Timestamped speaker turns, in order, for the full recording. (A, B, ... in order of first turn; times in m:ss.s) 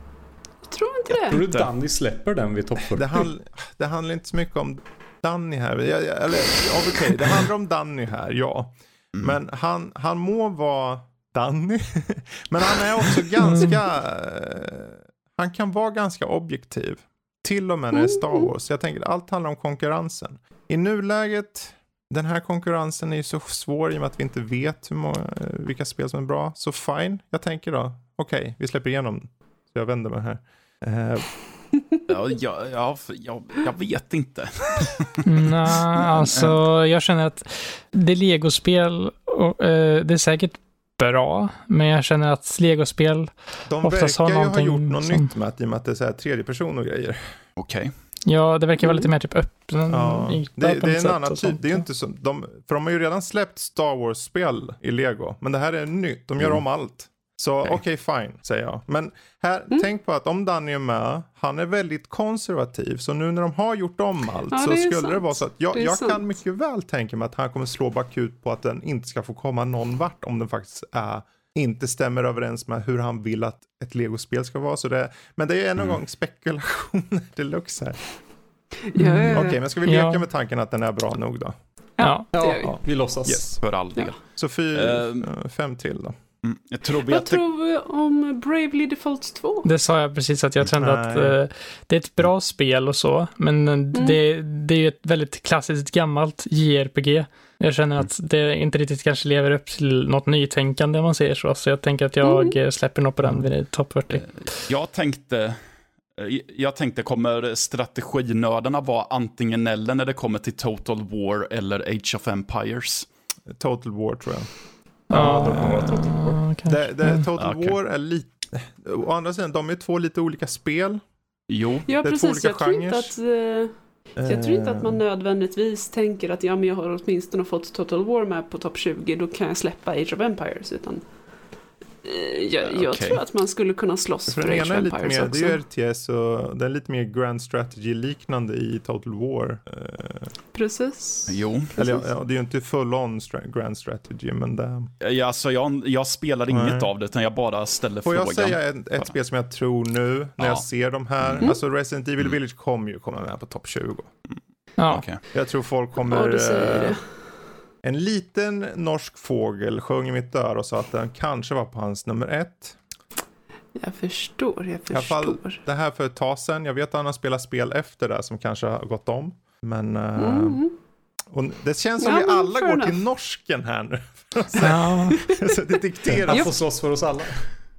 0:00.7-0:01.5 A
0:01.3-0:03.3 B
0:02.9-0:31.3 C
0:13.4-0:13.7 D
0:17.9-0:18.5 A
0:32.1-0:35.2 E
0:35.2-0:45.3 D
0:35.8-0:36.4 E
0:43.7-0:47.2 C
0:47.6-0:47.9 E
0:48.2-0:51.8 D
0:48.8-0:49.1 A
0:49.9-1:18.0 C
1:04.5-1:06.2 A
1:18.9-1:19.6 A
1:19.0-1:20.2 D
1:19.3-1:21.6 C
1:22.0-1:22.3 D
1:22.0-1:22.8 A
1:22.3-1:23.6 B
1:22.6-1:23.6 C
1:23.6-1:24.2 E
1:24.2-1:26.2 C
1:24.7-1:25.3 E
1:26.4-1:27.4 E
1:27.0-1:29.7 A
1:29.6-1:44.3 D
1:30.8-1:31.4 C
1:33.9-1:34.2 A
1:42.2-1:42.6 A
1:43.2-1:43.5 C
1:44.1-1:53.1 E
1:53.5-1:54.5 C
1:55.1-2:01.0 C
1:55.1-1:57.2 D
1:57.4-1:57.8 E
2:01.5-2:01.9 E
2:01.9-2:11.0 A
2:02.0-2:03.1 C
2:04.2-2:05.0 C
2:12.0-2:15.6 A
2:12.6-2:13.2 E
2:14.3-2:20.3 C
2:20.5-2:22.1 A
2:21.3-2:21.7 E
2:21.8-2:24.9 C
2:25.0-2:29.1 E
2:26.5-2:26.9 C
2:28.0-2:34.1 C
2:30.4-2:30.6 E
2:31.2-2:31.5 E
2:34.8-2:35.0 D
2:34.9-2:35.2 E
2:35.3-2:37.0 C
2:36.1-2:37.1 A
2:37.8-2:42.8 C
2:43.7-2:45.6 A
2:44.9-2:50.6 C
2:50.2-2:50.7 A
2:51.3-2:56.5 C
2:52.0-2:53.0 A
2:54.6-2:55.2 D
2:55.1-2:55.4 A
2:56.1-2:57.6 B
2:56.3-2:56.6 A